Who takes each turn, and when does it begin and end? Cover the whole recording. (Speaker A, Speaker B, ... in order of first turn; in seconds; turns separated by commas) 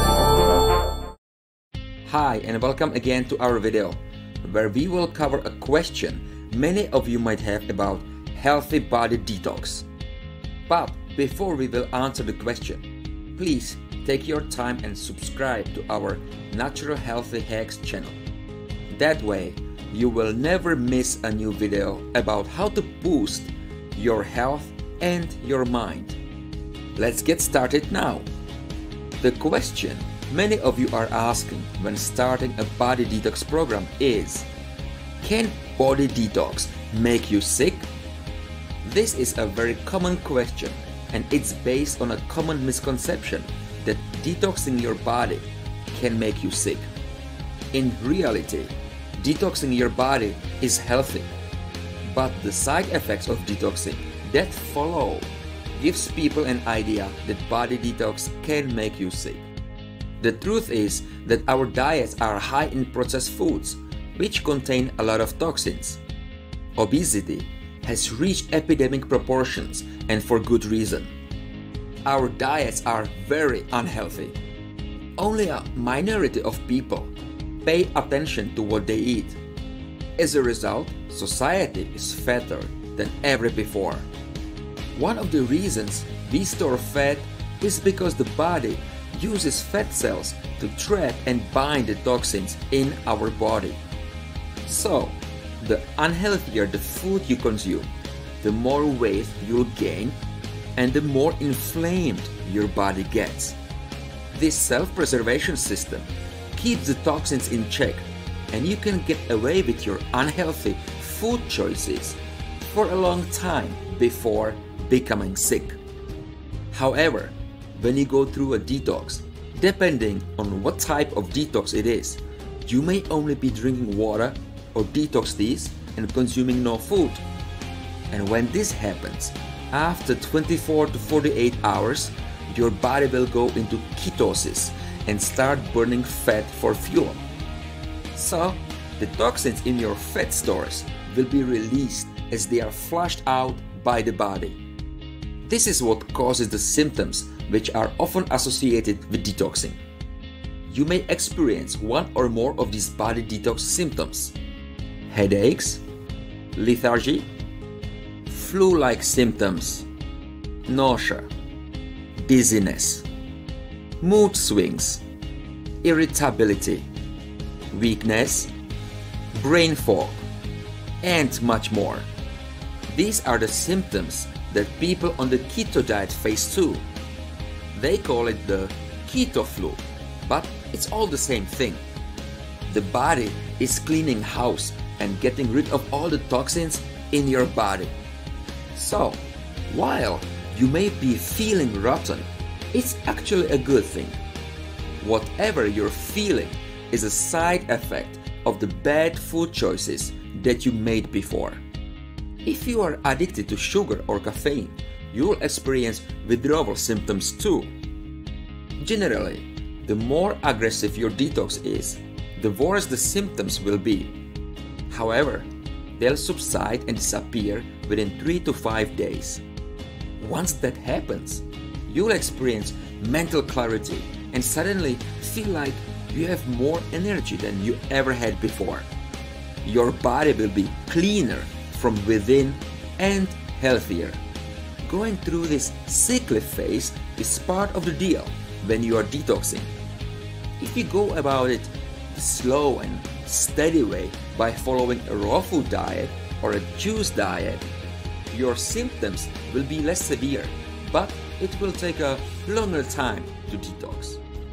Speaker A: 2.1-9.9, Speaker A: 10.7-12.8, Speaker A: 13.4-18.2, Speaker A: 18.9-26.2, Speaker A: 27.0-28.3, Speaker A: 29.2-34.5, Speaker A: 35.2-37.9, Speaker A: 38.8-46.9, Speaker A: 47.7-51.3, Speaker A: 52.0-59.5, Speaker A: 60.2-66.0, Speaker A: 66.8-71.1, Speaker A: 72.0-74.4, Speaker A: 75.2-77.1, Speaker A: 77.7-79.4, Speaker A: 80.2-84.1, Speaker A: 85.0-93.8, Speaker A: 94.7-97.9, Speaker A: 98.4-100.2, Speaker A: 100.8-103.6, Speaker A: 104.3-115.8, Speaker A: 116.7-127.2, Speaker A: 128.1-137.2, Speaker A: 138.1-144.6, Speaker A: 145.5-149.8, Speaker A: 150.7-154.3, Speaker A: 155.1-155.8, Speaker A: 156.6-157.3, Speaker A: 158.3-159.9, Speaker A: 160.7-161.3, Speaker A: 162.2-163.1, Speaker A: 164.0-165.0, Speaker A: 165.8-166.9, Speaker A: 167.7-168.5, Speaker A: 169.3-170.2, Speaker A: 171.0-172.1, Speaker A: 172.9-176.8, Speaker A: 177.7-181.8, Speaker A: 182.7-187.9, Speaker A: 188.7-194.2, Speaker A: 195.0-201.6, Speaker A: 202.4-207.7, Speaker A: 208.8-214.1, Speaker A: 214.9-219.4, Speaker A: 220.2-228.9, Speaker A: 229.6-234.2, Speaker A: 234.8-239.7, Speaker A: 240.6-247.7, Speaker A: 248.3-254.2